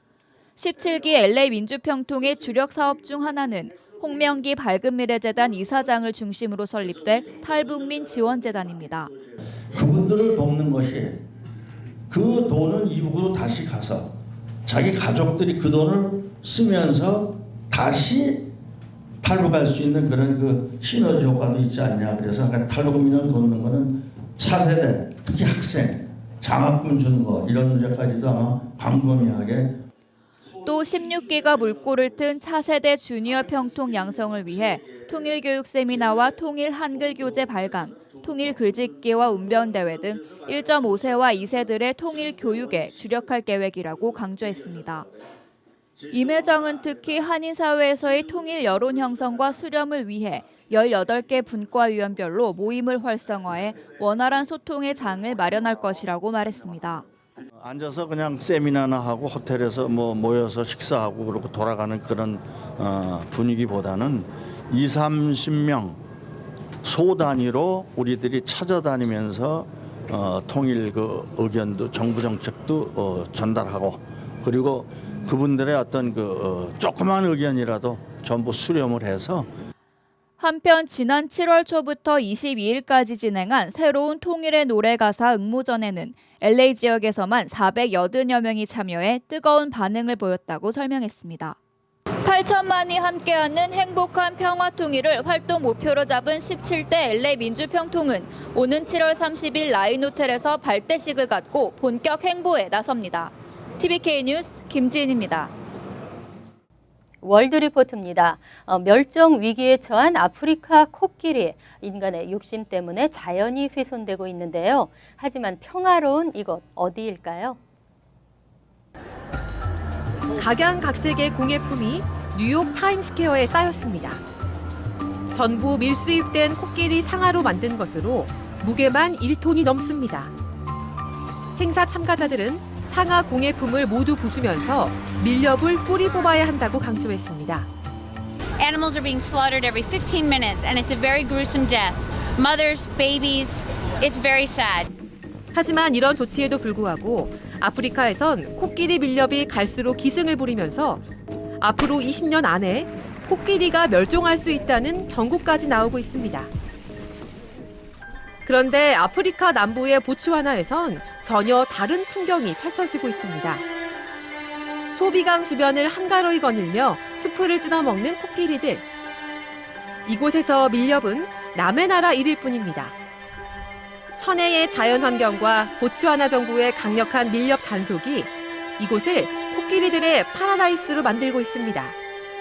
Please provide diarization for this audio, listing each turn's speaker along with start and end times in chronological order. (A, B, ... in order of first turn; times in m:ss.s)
0:00.6-0:09.1 A
0:09.7-0:11.2 B
0:12.1-0:14.1 B
0:14.6-0:18.4 B
0:19.2-0:29.8 B
0:30.6-0:45.1 A
0:46.1-0:57.0 A
0:57.6-1:06.0 B
1:06.8-1:19.5 B
1:20.4-1:31.6 A
1:32.2-1:45.5 A
1:47.2-1:57.6 C
2:00.4-2:04.2 D
2:05.3-2:10.3 D
2:11.6-2:17.7 D
2:18.6-2:24.9 E
2:25.5-2:31.0 D
2:31.6-2:36.5 D
2:38.4-2:43.6 D
2:44.9-2:48.8 D
2:50.0-2:52.9 D
2:54.2-3:01.9 D